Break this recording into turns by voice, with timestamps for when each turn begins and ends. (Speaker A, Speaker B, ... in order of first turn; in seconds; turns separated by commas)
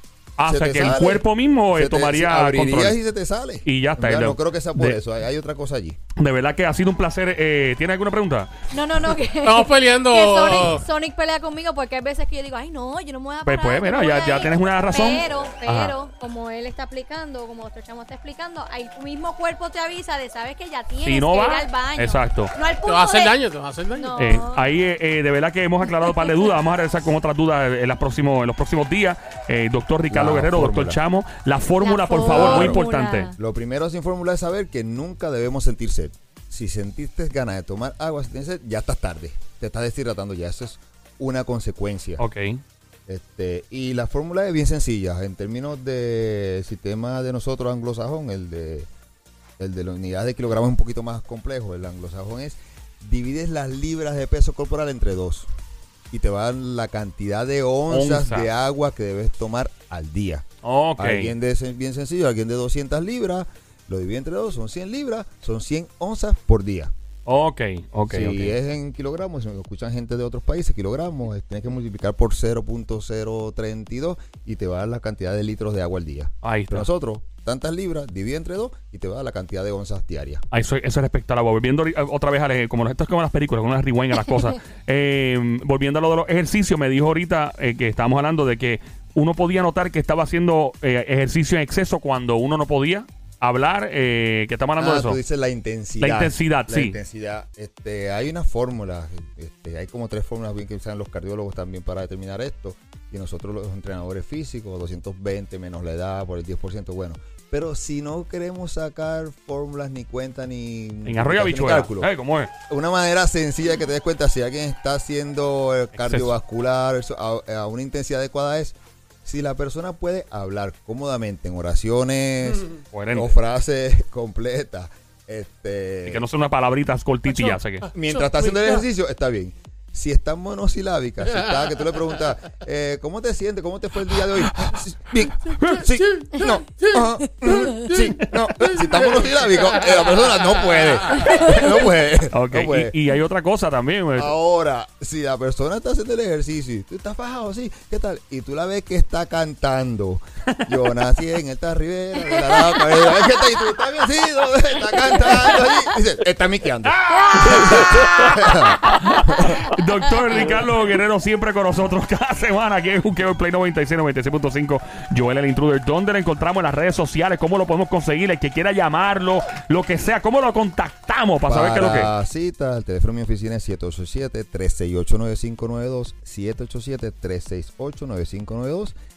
Speaker A: 0.4-3.0, Speaker B: 0.4-6.0, Speaker A: 3.6-5.0, Speaker A: 6.2-8.5, Speaker C: 8.7-23.4, Speaker D: 9.4-10.8, Speaker A: 13.4-15.9, Speaker A: 21.0-22.5, Speaker D: 22.9-24.3, Speaker C: 23.9-24.6, Speaker A: 24.2-33.3, Speaker B: 30.1-31.0, Speaker C: 31.8-33.4, Speaker B: 32.2-32.8, Speaker B: 33.4-42.2, Speaker A: 42.2-42.6, Speaker B: 43.1-48.9, Speaker B: 49.6-55.5, Speaker B: 56.1-60.5, Speaker A: 57.9-58.5, Speaker A: 60.6-61.3, Speaker B: 61.0-66.9, Speaker A: 67.3-68.5, Speaker B: 68.1-80.4, Speaker A: 76.4-76.9, Speaker A: 80.5-95.2, Speaker B: 94.8-112.1, Speaker A: 96.0-97.0, Speaker A: 111.0-112.5, Speaker B: 112.7-126.2, Speaker A: 116.0-116.3, Speaker A: 122.9-123.3, Speaker A: 126.0-127.9, Speaker D: 127.3-128.8, Speaker B: 127.9-142.9, Speaker A: 135.6-135.8, Speaker D: 136.0-140.1, Speaker A: 142.3-144.3, Speaker B: 144.2-159.6, Speaker C: 152.3-152.9, Speaker A: 156.8-172.1, Speaker B: 171.4-178.9